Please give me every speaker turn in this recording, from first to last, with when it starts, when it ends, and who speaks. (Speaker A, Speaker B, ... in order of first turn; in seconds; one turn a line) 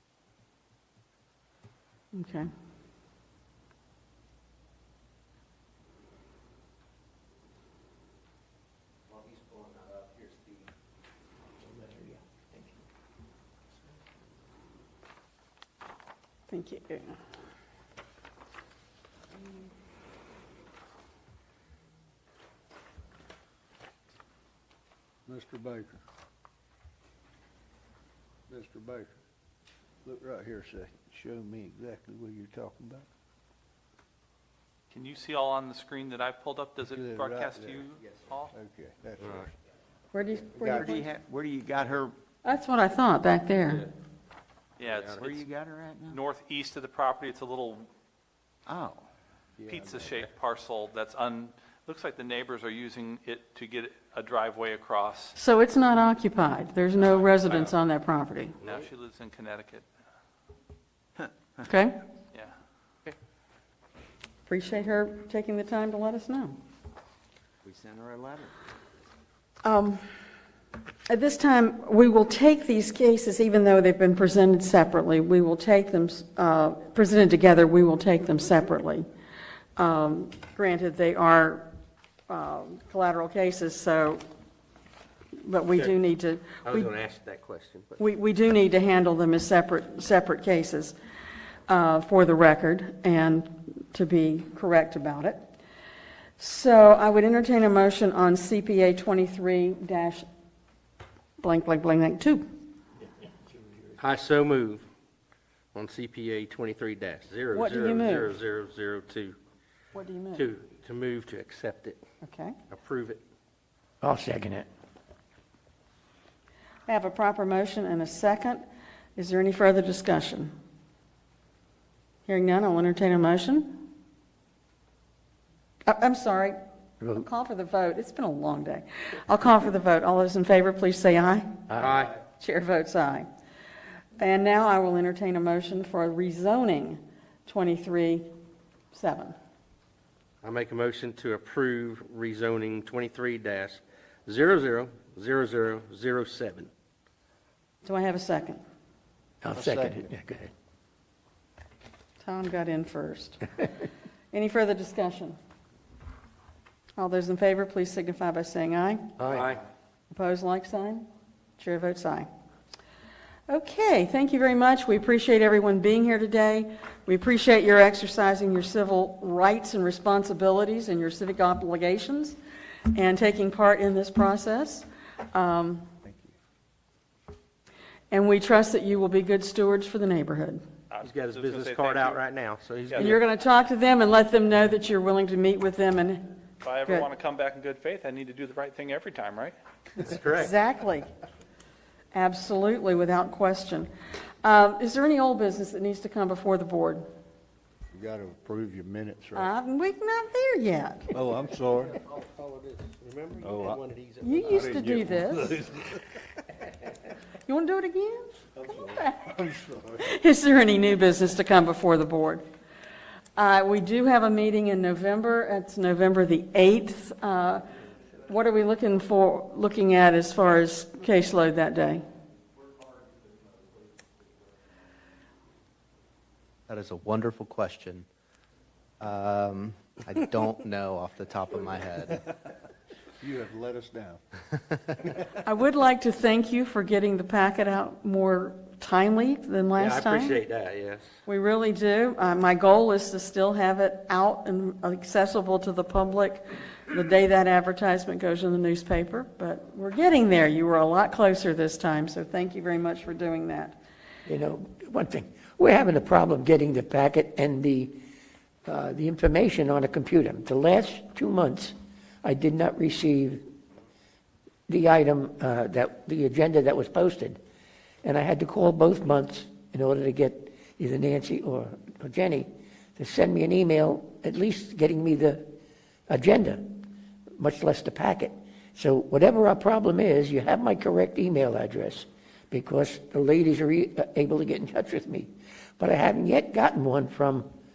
Speaker A: 2.1-2.5
Speaker A: 16.5-17.1
Speaker B: 25.3-26.0
Speaker B: 28.5-29.1
Speaker B: 30.0-33.1
Speaker C: 34.9-38.5
Speaker B: 36.9-37.9
Speaker B: 38.5-39.5
Speaker D: 39.2-39.4
Speaker A: 40.1-41.1
Speaker E: 40.6-42.1
Speaker A: 42.4-43.9
Speaker C: 44.8-45.5
Speaker D: 44.9-45.3
Speaker E: 45.3-46.1
Speaker C: 46.1-47.9
Speaker E: 48.7-49.0
Speaker C: 49.6-55.4
Speaker A: 55.4-58.6
Speaker C: 57.1-57.7
Speaker C: 58.6-59.8
Speaker A: 61.7-62.0
Speaker A: 64.5-66.5
Speaker E: 67.7-68.5
Speaker A: 69.6-70.0
Speaker A: 71.1-79.1
Speaker A: 79.8-81.7
Speaker A: 82.3-84.2
Speaker A: 85.4-86.9
Speaker D: 85.7-86.0
Speaker D: 86.6-88.0
Speaker A: 88.0-91.0
Speaker A: 91.7-95.4
Speaker A: 96.4-100.2
Speaker A: 101.4-102.4
Speaker D: 104.0-104.8
Speaker D: 105.7-109.4
Speaker A: 107.5-108.3
Speaker A: 109.9-110.5
Speaker D: 110.3-112.0
Speaker A: 112.2-112.6
Speaker D: 112.7-113.2
Speaker F: 114.0-114.7
Speaker A: 116.9-118.6
Speaker A: 119.2-120.5
Speaker A: 122.2-123.8
Speaker A: 125.8-126.6
Speaker A: 127.1-131.6
Speaker D: 131.8-132.2
Speaker A: 132.2-133.3
Speaker A: 134.2-138.3
Speaker A: 138.9-139.3
Speaker D: 140.4-146.7
Speaker A: 147.8-148.6
Speaker F: 149.4-150.5
Speaker B: 149.5-150.0
Speaker A: 152.2-153.5
Speaker A: 154.3-155.4
Speaker A: 157.0-159.1
Speaker D: 159.2-159.6
Speaker A: 160.1-161.1
Speaker A: 161.6-162.3
Speaker A: 163.5-172.4
Speaker A: 172.9-175.9
Speaker B: 176.0-176.3
Speaker A: 178.1-180.6
Speaker C: 180.9-182.2
Speaker D: 181.0-183.2
Speaker C: 182.9-183.2
Speaker A: 183.0-186.2
Speaker C: 186.6-189.5
Speaker D: 190.0-190.5
Speaker A: 190.3-191.1
Speaker A: 192.1-193.9
Speaker A: 194.4-197.1
Speaker B: 197.9-199.5
Speaker A: 199.3-201.1
Speaker B: 201.1-202.0
Speaker D: 201.9-204.9
Speaker B: 203.4-203.8
Speaker A: 204.2-205.5
Speaker B: 204.4-206.0
Speaker A: 207.4-208.4
Speaker B: 208.6-210.0
Speaker A: 210.0-212.4
Speaker A: 213.4-217.7
Speaker A: 218.3-222.0
Speaker G: 226.7-228.1
Speaker G: 229.0-232.2
Speaker B: 233.2-234.2
Speaker A: 235.4-240.4
Speaker D: 239.7-241.2
Speaker A: 241.2-253.8
Speaker F: 254.2-258.0
Speaker F: 258.6-263.4
Speaker F: 264.7-267.4
Speaker F: 268.0-275.4
Speaker F: 276.1-276.7
Speaker F: 277.4-287.5